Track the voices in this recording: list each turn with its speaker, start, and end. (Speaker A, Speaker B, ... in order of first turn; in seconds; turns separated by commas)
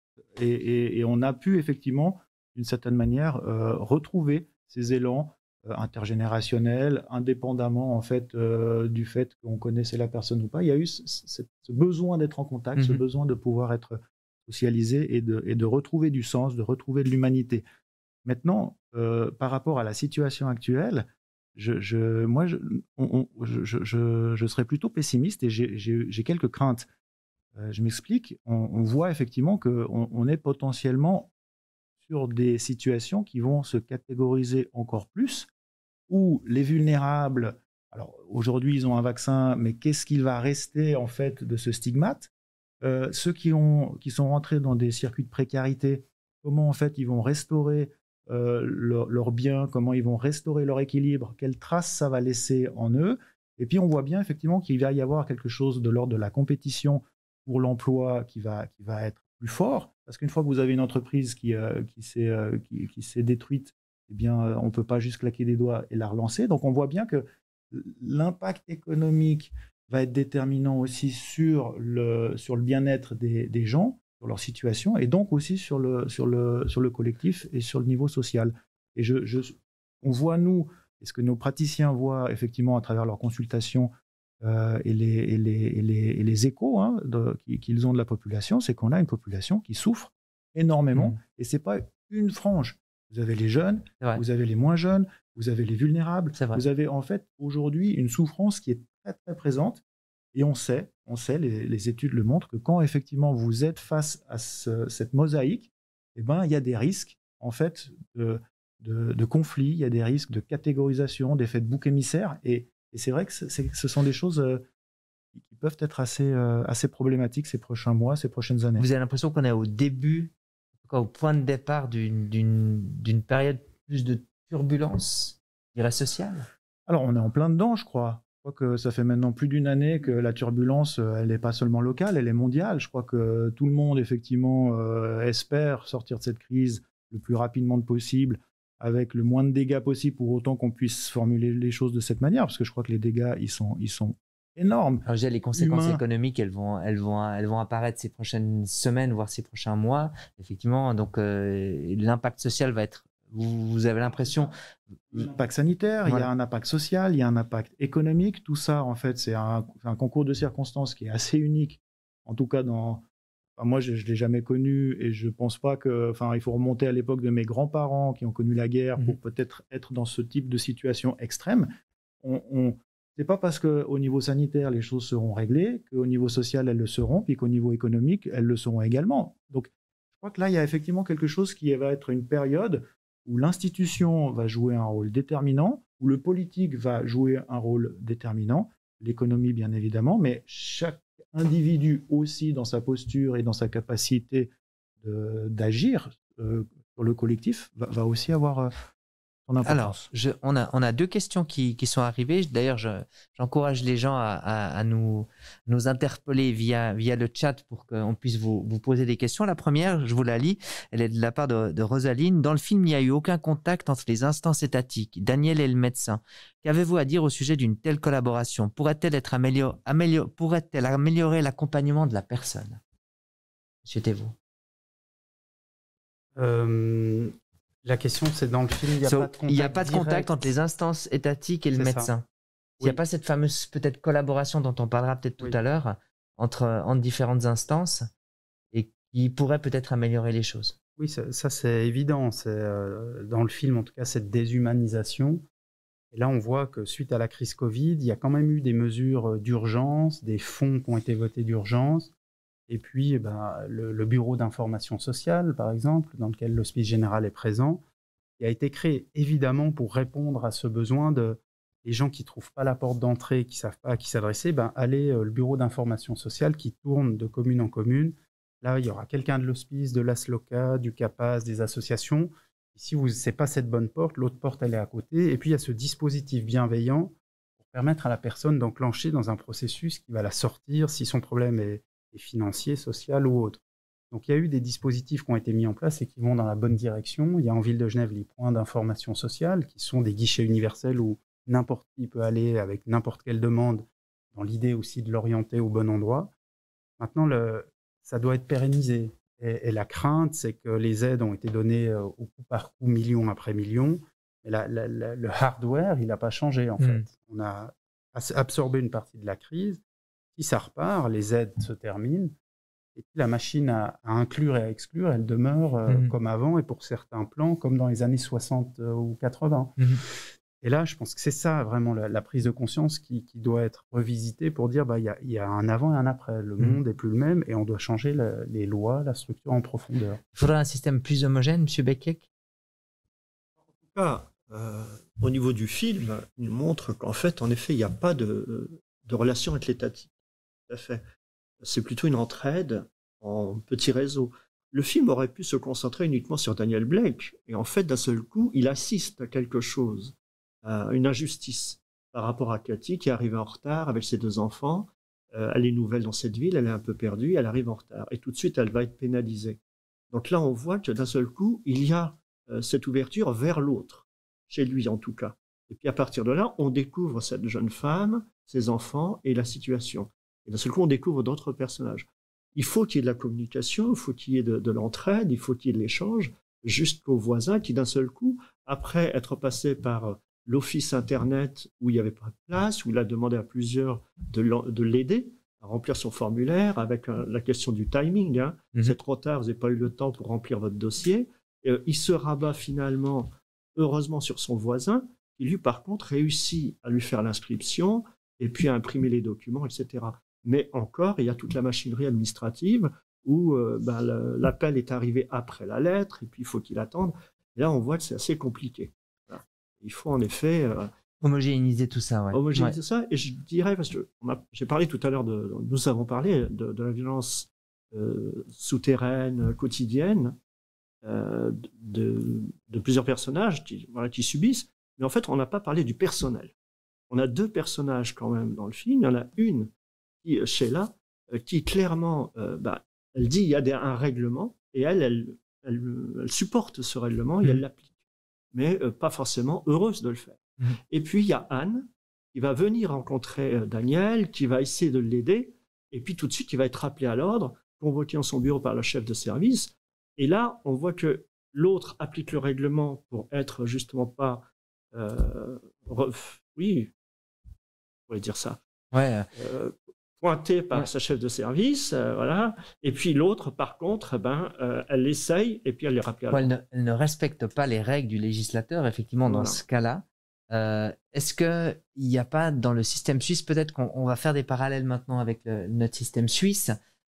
Speaker A: 0.3-17.6, Speaker B: 12.8-13.0, Speaker A: 18.2-26.9, Speaker A: 27.6-31.3, Speaker A: 32.0-35.5, Speaker A: 36.1-42.3, Speaker A: 42.8-99.8, Speaker B: 90.9-91.2, Speaker B: 96.3-96.6, Speaker A: 100.3-114.6, Speaker A: 115.3-118.8, Speaker B: 118.8-120.3, Speaker B: 120.9-126.5, Speaker A: 126.9-146.0, Speaker B: 145.0-154.5, Speaker A: 155.1-163.0, Speaker A: 163.6-171.7, Speaker A: 172.2-198.7, Speaker A: 199.4-200.1, Speaker B: 199.6-222.8, Speaker B: 223.8-224.3, Speaker C: 226.3-230.3, Speaker B: 229.0-232.2, Speaker C: 231.8-232.1, Speaker B: 232.8-238.1, Speaker B: 238.7-240.7, Speaker C: 241.0-245.4, Speaker C: 246.1-252.1, Speaker C: 252.7-257.8, Speaker C: 258.4-296.3, Speaker C: 297.0-309.8, Speaker B: 306.8-307.0, Speaker C: 310.4-312.3, Speaker C: 312.9-330.2, Speaker B: 330.3-332.3, Speaker D: 333.7-340.1, Speaker D: 340.7-341.0, Speaker D: 341.6-359.6, Speaker D: 360.1-410.9, Speaker B: 411.2-412.8, Speaker D: 412.3-420.4, Speaker D: 421.0-426.5, Speaker D: 427.1-429.7, Speaker D: 430.2-437.9, Speaker D: 438.5-456.9, Speaker D: 458.1-458.6, Speaker B: 458.9-459.3, Speaker D: 459.3-466.5, Speaker B: 466.3-476.7, Speaker D: 469.2-469.6